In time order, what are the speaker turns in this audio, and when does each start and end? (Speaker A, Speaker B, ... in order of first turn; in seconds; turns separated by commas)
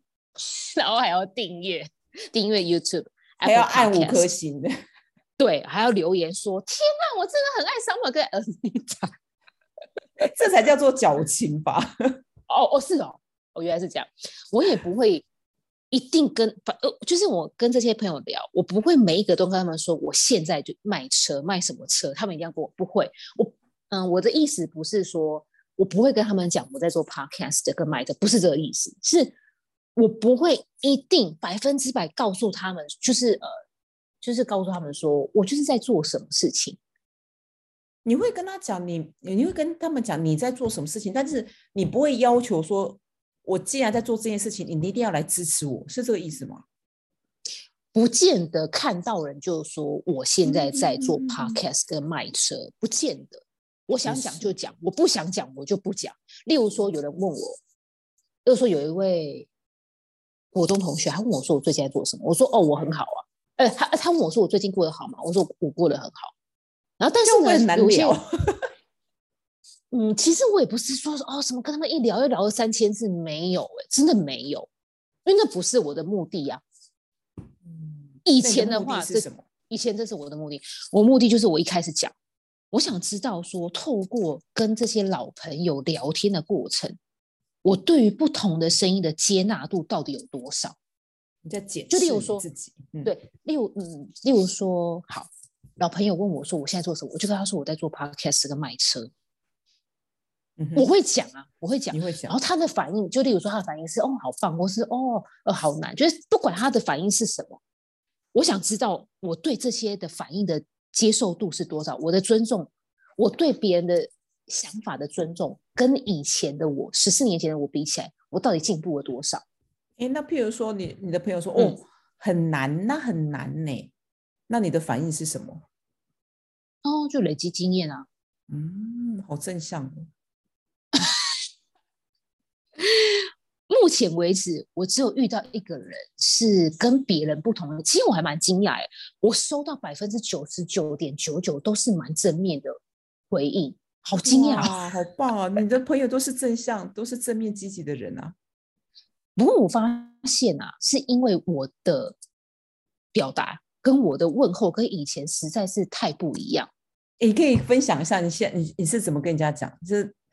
Speaker A: 0.4-4.3, Speaker B: 3.4-4.7, Speaker A: 5.4-9.1, Speaker B: 10.2-12.2, Speaker A: 12.5-15.2, Speaker A: 15.9-29.3, Speaker A: 29.9-33.5, Speaker A: 34.2-36.8, Speaker B: 38.0-46.6, Speaker A: 47.9-57.6, Speaker B: 50.4-51.6, Speaker B: 54.0-54.5, Speaker A: 58.4-59.5, Speaker A: 60.5-66.3, Speaker A: 67.0-68.2, Speaker B: 67.2-68.7, Speaker A: 69.9-74.7, Speaker A: 75.2-76.6, Speaker B: 77.6-79.5, Speaker A: 78.2-82.1, Speaker A: 82.7-87.0, Speaker A: 87.6-90.8, Speaker B: 91.4-93.1, Speaker A: 91.9-92.4, Speaker A: 93.0-99.1, Speaker B: 100.6-100.9, Speaker A: 100.7-107.6, Speaker B: 101.9-102.3, Speaker A: 108.3-119.4, Speaker B: 120.0-123.9, Speaker B: 124.5-125.6, Speaker A: 126.8-128.1, Speaker B: 128.5-130.1, Speaker A: 132.8-142.8, Speaker A: 143.3-144.8, Speaker B: 144.2-148.3, Speaker A: 149.3-152.2, Speaker A: 153.1-156.7, Speaker B: 157.2-160.1